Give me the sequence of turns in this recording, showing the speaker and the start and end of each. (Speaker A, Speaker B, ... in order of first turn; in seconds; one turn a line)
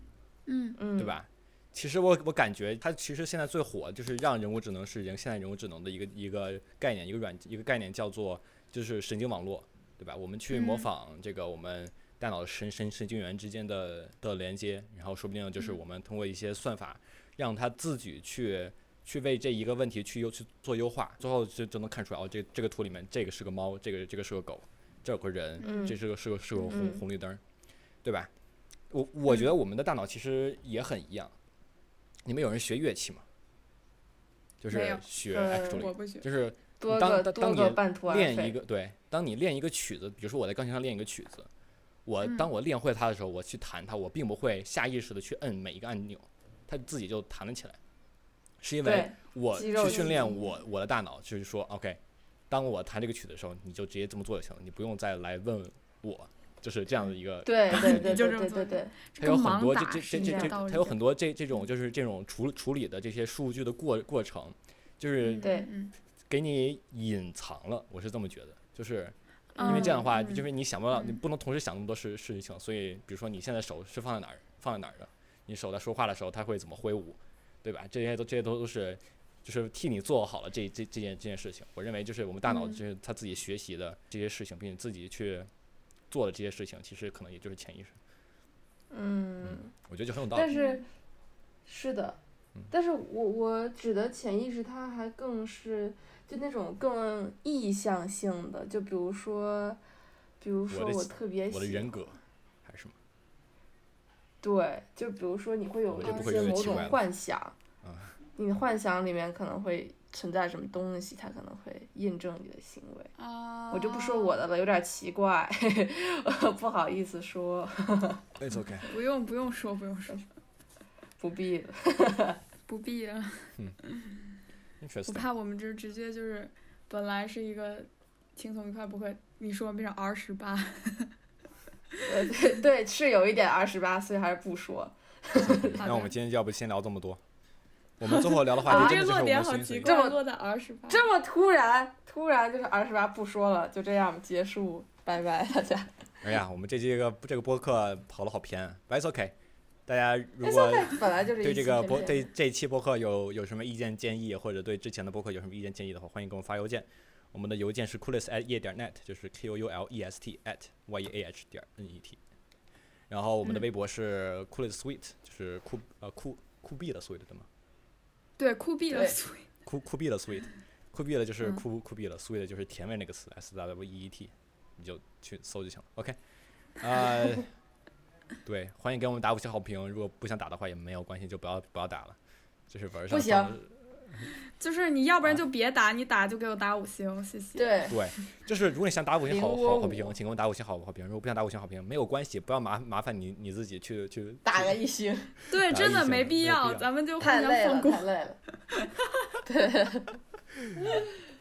Speaker A: 0.5-0.8
Speaker B: 0.8-1.2
Speaker C: 1.0-27.4
Speaker A: 10.5-10.9
Speaker A: 25.6-25.9
Speaker B: 25.6-26.0
Speaker A: 26.6-26.9
Speaker B: 26.7-27.0
Speaker C: 28.0-28.3
Speaker C: 28.9-31.3
Speaker C: 32.2-33.2
Speaker C: 34.6-41.5
Speaker A: 34.7-36.3
Speaker B: 35.3-35.9
Speaker B: 36.8-38.6
Speaker C: 42.0-47.8
Speaker C: 48.6-52.0
Speaker B: 48.8-50.5
Speaker A: 49.5-50.2
Speaker C: 52.5-58.3
Speaker B: 57.4-58.9
Speaker A: 57.7-61.0
Speaker C: 59.2-65.5
Speaker B: 60.2-60.5
Speaker A: 65.2-65.9
Speaker B: 65.4-65.7
Speaker C: 66.3-85.5
Speaker A: 69.6-71.2
Speaker B: 69.6-70.0
Speaker A: 82.5-82.8
Speaker C: 86.1-88.0
Speaker B: 88.9-89.7
Speaker C: 89.4-90.5
Speaker B: 90.3-90.8
Speaker A: 90.5-90.8
Speaker B: 91.7-92.2
Speaker B: 92.7-99.8
Speaker B: 100.4-102.0
Speaker C: 100.7-102.9
Speaker B: 104.4-107.5
Speaker C: 105.9-107.0
Speaker A: 106.0-106.9
Speaker C: 107.8-108.1
Speaker B: 108.3-113.1
Speaker A: 113.2-114.4
Speaker B: 113.7-118.2
Speaker C: 118.4-118.9
Speaker A: 118.8-120.2
Speaker B: 121.2-122.4
Speaker A: 122.7-124.2
Speaker C: 124.8-125.3
Speaker A: 125.0-131.1
Speaker B: 132.1-135.8
Speaker A: 135.4-136.1
Speaker C: 135.4-137.2
Speaker C: 138.0-139.9
Speaker A: 138.0-141.1
Speaker B: 138.6-139.1
Speaker B: 139.8-140.2
Speaker B: 140.9-146.1
Speaker C: 146.2-149.3
Speaker C: 149.9-162.2
Speaker B: 150.4-152.3
Speaker C: 163.1-167.5
Speaker A: 168.4-169.5
Speaker B: 168.9-169.2
Speaker C: 169.7-176.2
Speaker C: 176.8-177.5
Speaker C: 178.4-182.2
Speaker C: 182.7-184.3
Speaker B: 183.1-183.6
Speaker A: 184.6-187.9
Speaker B: 187.6-188.0
Speaker C: 187.9-194.8
Speaker B: 189.2-190.1
Speaker B: 194.4-195.3
Speaker C: 195.4-196.8
Speaker A: 195.5-198.1
Speaker B: 197.2-198.4
Speaker A: 198.7-199.4
Speaker B: 199.4-200.2